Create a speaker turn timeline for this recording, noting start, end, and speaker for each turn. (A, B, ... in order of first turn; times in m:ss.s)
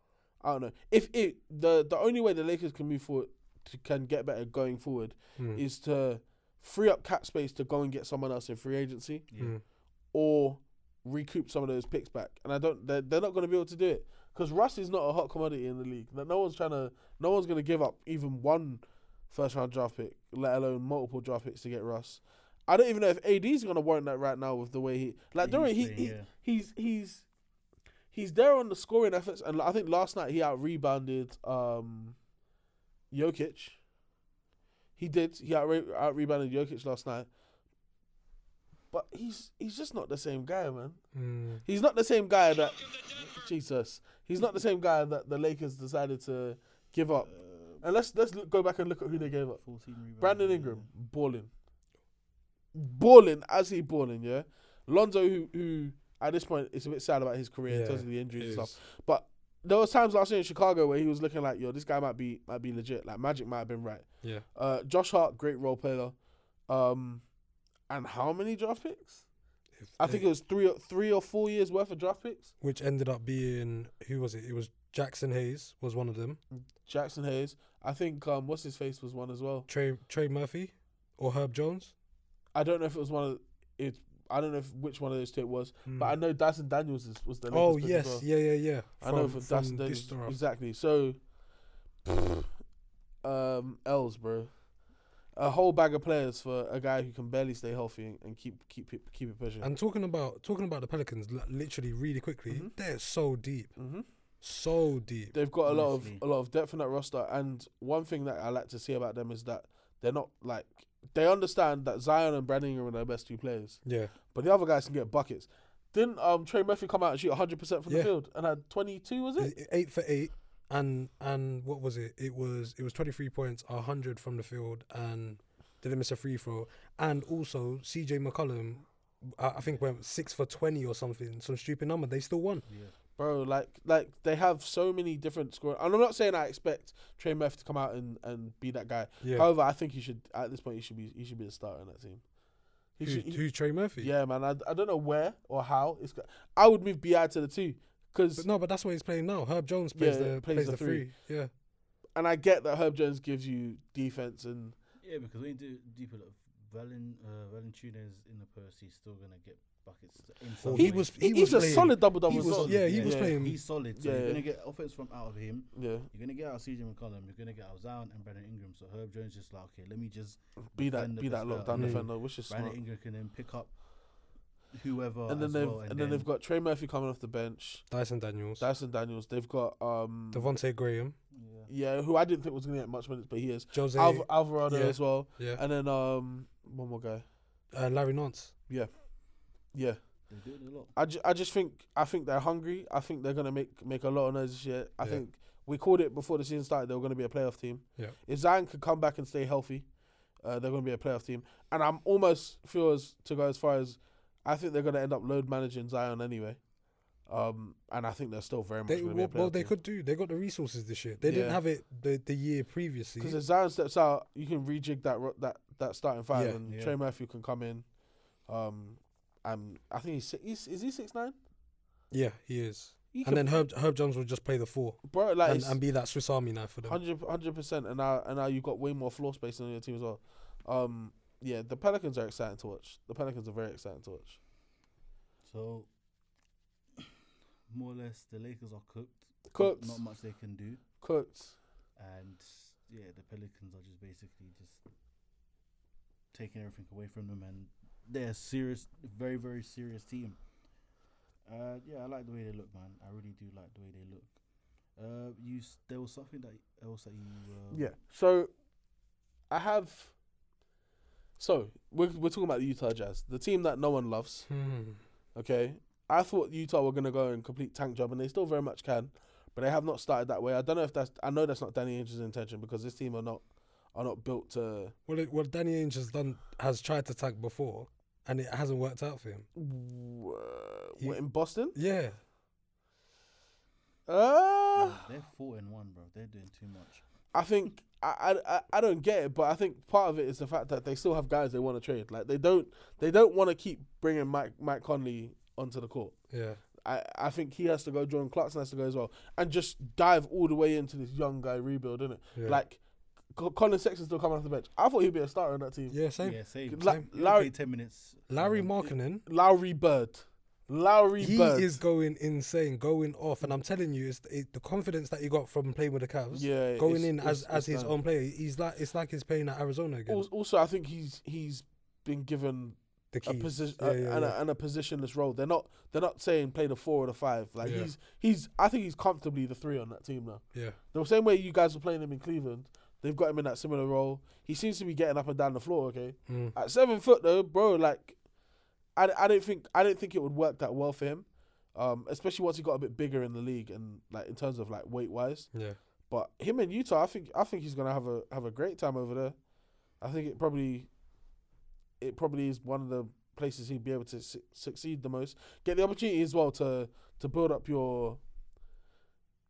0:00.4-0:09.2 A
0:05.4-0:05.6 B
0:09.3-0:09.6 C
0:10.1-0:27.2 A
0:25.4-0:26.3 C
0:28.1-0:32.2 A
0:33.1-0:33.8 A
0:35.0-0:37.3 A
0:38.9-0:41.0 A
0:41.1-0:41.6 B
0:41.6-0:49.6 A
0:47.3-0:47.8 C
0:49.6-0:50.9 C
0:50.2-0:51.5 A
0:52.7-1:06.1 A
0:57.7-0:58.7 B
1:06.7-1:07.2 A
1:07.9-1:09.2 A
1:09.8-1:10.3 B
1:10.0-1:12.5 A
1:12.6-1:16.4 B
1:16.8-1:19.7 A
1:19.7-1:21.9 B
1:22.5-1:28.2 A
1:25.9-1:26.2 B
1:27.5-1:30.4 B
1:29.0-1:31.2 A
1:32.0-1:32.5 A
1:33.2-1:34.5 A
1:35.3-1:39.7 A
1:39.6-1:43.8 B
1:43.8-1:44.0 A
1:44.4-1:45.3 B
1:45.3-1:53.8 A
1:45.6-1:46.2 C
1:53.8-1:54.1 B
1:54.3-1:59.5 A
1:59.4-2:12.6 B
2:12.7-2:12.9 C
2:13.2-2:22.2 A
2:19.2-2:19.5 B
2:23.0-2:23.4 A
2:23.0-2:24.1 B
2:24.0-2:28.4 A
2:28.4-2:31.5 B
2:29.9-2:31.1 A
2:32.1-2:34.7 A
2:35.0-2:53.7 C
2:40.6-2:43.6 B
2:40.7-2:44.4 A
2:45.8-2:46.1 A
2:50.7-2:52.8 A
2:51.7-2:52.0 B
2:54.7-2:56.3 C
2:55.3-2:57.9 A
2:57.9-2:58.7 B
2:58.6-3:00.6 A
3:00.3-3:01.2 B
3:01.3-3:01.7 C
3:01.7-3:07.2 A
3:03.7-3:05.6 B
3:07.7-3:08.5 B
3:09.7-3:10.0 A
3:10.3-3:10.9 C
3:10.9-3:19.9 A
3:20.4-3:26.6 A
3:27.2-3:29.7 A
3:28.9-3:33.4 B
3:31.2-3:31.6 A
3:33.2-3:37.9 A
3:36.3-3:36.6 B
3:36.7-3:37.0 C
3:38.4-3:41.4 A
3:42.1-3:47.0 B
3:43.1-3:43.6 A
3:45.0-3:45.8 A
3:46.9-3:54.4 A
3:55.4-3:55.9 C
3:57.7-4:00.8 C
3:59.5-4:00.0 A
4:01.0-4:01.6 A
4:02.0-4:04.8 C
4:06.3-4:10.4 C
4:11.4-4:14.3 C
4:15.0-4:17.9 C
4:17.7-4:18.5 A
4:19.5-4:20.1 A
4:21.4-4:24.5 A
4:24.5-4:25.0 B
4:25.3-4:33.4 A
4:33.9-4:34.9 A
4:35.1-4:39.5 B
4:39.6-4:41.8 A
4:41.7-4:42.2 B
4:44.1-4:45.0 A
4:44.7-4:47.0 C
4:47.3-4:56.2 A
4:56.3-4:56.6 B
4:56.8-5:02.8 A
5:02.3-5:02.6 B
5:03.3-5:06.0 A
5:05.9-5:07.0 B
5:06.2-5:08.7 C
5:06.7-5:07.5 A
5:08.3-5:09.2 B
5:09.2-5:11.8 A
5:11.2-5:20.3 B
5:16.3-5:17.9 A
5:20.1-5:38.2 A
5:23.1-5:24.4 B
5:27.6-5:27.9 B
5:36.3-5:36.5 B
5:39.0-5:45.5 A
5:45.5-5:45.8 B
5:46.1-5:49.4 A
5:50.0-5:50.9 A
5:52.0-5:58.2 A